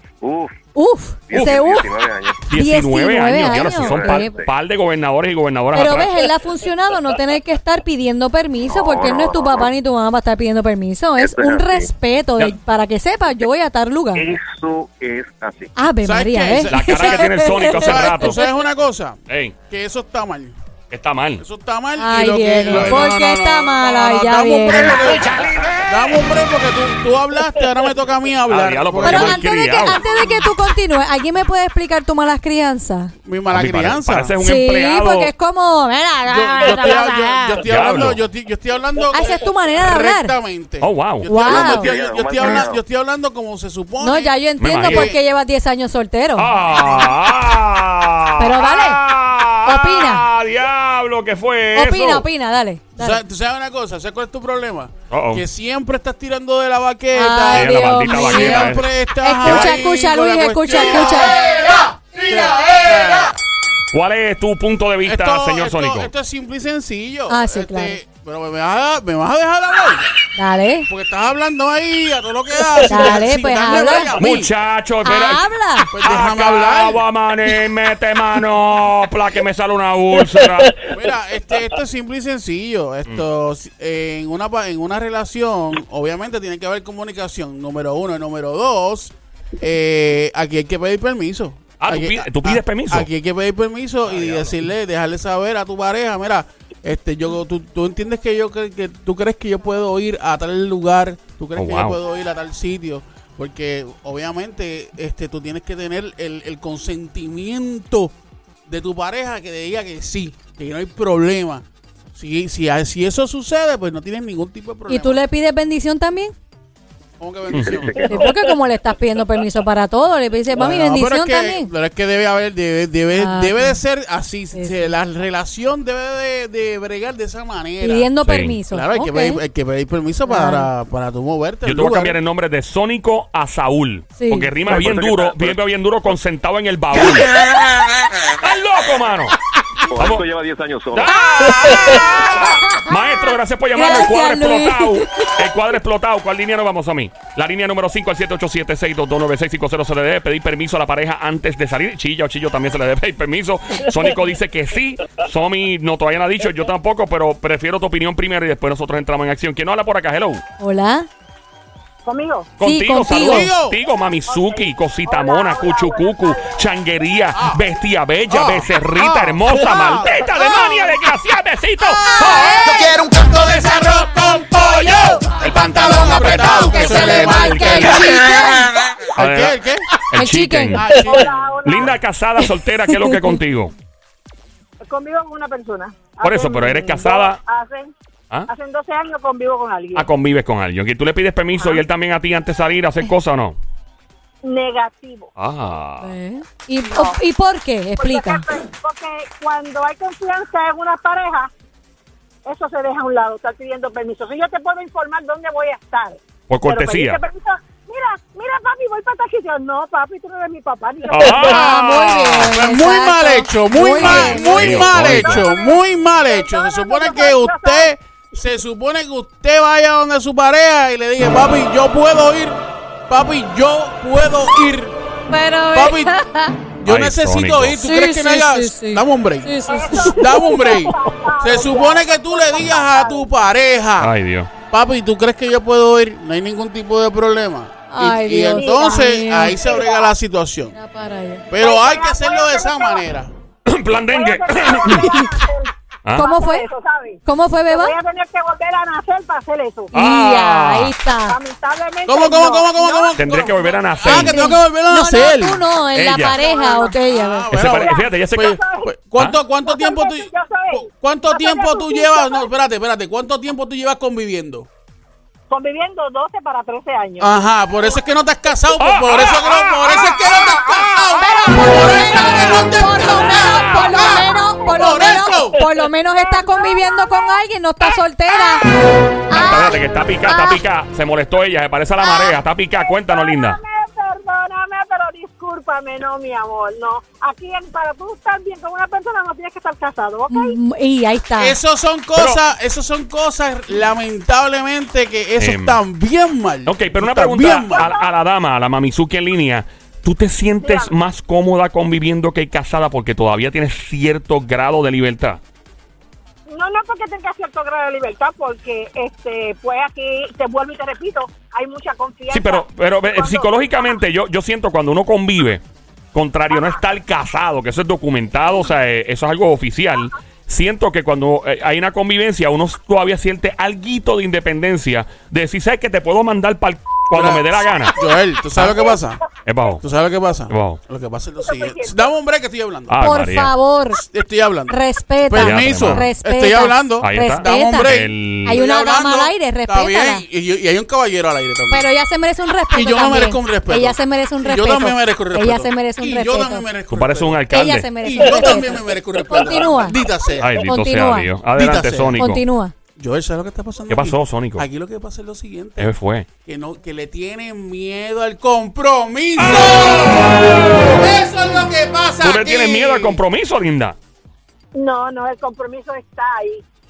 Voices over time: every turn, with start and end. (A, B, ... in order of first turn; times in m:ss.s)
0:00.2-0:00.5 A
0:00.7-0:01.9 B
0:01.3-0:02.4 A
0:01.3-0:01.7 C
0:02.5-0:06.3 C
0:02.5-0:04.3 B
0:03.5-0:04.5 A
0:05.7-0:14.3 B
0:08.7-0:09.7 A
0:11.2-0:11.9 A
0:14.1-0:15.7 A
0:15.8-0:18.4 B
0:16.0-0:20.6 D
0:16.7-0:18.4 C
0:19.3-0:19.6 C
0:20.9-0:21.4 C
0:21.4-0:29.5 D
0:22.0-0:25.1 B
0:22.7-0:23.0 C
0:24.7-0:26.1 E
0:28.5-0:30.0 C
0:29.0-0:33.1 B
0:33.2-0:34.3 D
0:33.5-0:35.3 C
0:34.4-0:37.6 B
0:36.3-0:45.2 D
0:37.6-0:38.2 C
0:39.1-0:40.3 B
0:40.8-0:41.5 C
0:41.3-0:41.9 B
0:41.5-0:42.8 A
0:44.0-0:46.5 B
0:44.6-0:45.1 C
0:46.4-0:52.2 C
0:48.4-0:49.0 B
0:49.6-0:50.2 B
0:51.7-0:53.2 B
0:53.0-1:03.3 D
0:55.1-0:55.4 C
0:57.1-1:01.4 B
0:57.5-0:58.9 C
0:59.4-0:59.8 C
1:03.9-1:06.1 C
1:05.0-1:10.0 D
1:07.3-1:08.0 B
1:10.4-1:10.9 B
1:10.9-1:14.5 D
1:12.8-1:14.1 B
1:14.2-1:20.8 C
1:15.0-1:15.9 B
1:15.9-1:17.0 D
1:20.8-1:48.1 D
1:31.8-1:33.1 C
1:34.1-1:34.5 C
1:41.6-1:42.0 C
1:48.7-1:55.2 D
1:54.9-1:56.3 B
1:57.2-1:58.2 D
1:57.5-1:58.0 C
1:57.6-1:58.3 A
1:58.1-2:01.7 B
2:00.5-2:12.2 D
2:03.2-2:03.8 B
2:04.5-2:04.9 B
2:07.8-2:09.4 B
2:08.2-2:08.6 C
2:10.3-2:10.7 B
2:11.6-2:17.4 C
2:14.2-2:14.5 B
2:14.7-2:15.6 A
2:17.4-2:17.8 E
2:18.4-2:19.4 C
2:19.9-2:21.2 A
2:19.9-2:20.2 C
2:20.9-2:40.4 C
2:21.2-2:22.9 B
2:23.7-2:25.3 B
2:40.6-2:41.1 B
2:42.0-2:42.5 F
2:42.6-2:52.7 C
2:42.6-2:43.5 B
2:43.2-2:43.8 D
2:44.3-2:46.5 F
2:47.3-2:47.6 D
2:48.3-2:50.3 D
2:51.9-2:53.0 B
2:52.6-2:57.1 E
2:53.2-2:54.2 D
2:55.2-2:58.2 D
2:55.5-2:56.2 C
2:55.8-2:58.6 B
2:56.9-2:58.1 C
2:58.5-2:59.2 F
2:59.2-2:59.8 D
2:59.2-2:59.5 C
3:00.1-3:03.7 C
3:00.2-3:00.8 B
3:00.7-3:01.9 D
3:00.9-3:02.0 F
3:02.9-3:03.4 B
3:04.9-3:07.9 F
3:06.2-3:07.4 C
3:08.5-3:10.1 F
3:09.9-3:13.6 C
3:11.6-3:11.8 F
3:14.4-3:15.3 F
3:15.4-3:16.1 C
3:16.0-3:18.4 B
3:16.9-3:17.2 F
3:18.0-3:21.5 F
3:22.5-3:31.6 F
3:26.5-3:27.2 C
3:31.1-3:32.5 C
3:31.2-3:34.5 B
3:32.5-3:44.9 D
3:34.0-3:35.4 C
3:34.5-3:37.9 F
3:45.3-3:46.6 B
3:45.7-3:46.2 D
3:46.8-3:49.5 D
3:46.8-3:47.8 C
3:47.8-3:50.4 B
3:49.7-3:53.2 F
3:50.0-3:54.1 D
3:54.0-3:54.5 C
3:54.7-4:00.7 D
3:57.9-3:59.6 B
3:58.5-4:00.1 F
4:00.7-4:01.5 B
4:01.5-4:03.3 D
4:01.5-4:03.0 F
4:03.7-4:05.1 C
4:04.0-4:09.9 F
4:04.9-4:05.3 B
4:06.2-4:06.7 B
4:07.2-4:08.0 B
4:09.9-4:11.4 B
4:09.9-4:10.9 C
4:11.3-4:13.8 F
4:12.0-4:15.6 D
4:13.2-4:14.4 C
4:14.1-4:17.5 B
4:15.9-4:16.4 C
4:16.4-4:17.0 F
4:17.1-4:24.7 D
4:17.5-4:18.6 C
4:17.7-4:18.9 F
4:19.6-4:22.5 F
4:25.5-4:27.3 F
4:27.2-4:35.6 D
4:28.8-4:29.9 C
4:30.1-4:37.4 F
4:31.8-4:38.7 B
4:39.3-4:40.6 B
4:39.3-4:43.6 C
4:42.0-4:50.6 F
4:50.3-4:51.6 B
4:51.4-4:57.9 D
4:55.4-4:55.8 C
4:56.6-5:05.4 C
4:57.8-4:58.0 F
5:00.6-5:00.9 F
5:06.5-5:14.0 F
5:12.3-5:15.6 C
5:16.1-5:27.9 C
5:16.5-5:16.8 F
5:27.1-5:29.2 D
5:29.5-5:29.8 C
5:29.8-5:33.0 D
5:30.5-5:30.8 C
5:31.4-5:32.1 F
5:32.9-5:33.5 C
5:33.0-5:34.0 B
5:34.0-5:41.9 D
5:34.7-5:40.2 B
5:35.4-5:36.0 C
5:37.0-5:38.6 C
5:41.7-5:46.7 B
5:42.7-5:47.4 D
5:46.9-5:47.9 C
5:47.5-5:50.0 B
5:48.0-5:50.6 D
5:50.4-5:52.4 C
5:50.6-5:51.3 B
5:51.5-5:52.2 D
5:52.2-5:52.7 B
5:53.0-5:55.9 D
5:53.9-5:54.6 C
5:55.8-5:56.3 C
5:56.4-6:03.2 D
5:59.4-6:00.9 C
6:02.2-6:04.0 C
6:04.7-6:06.6 F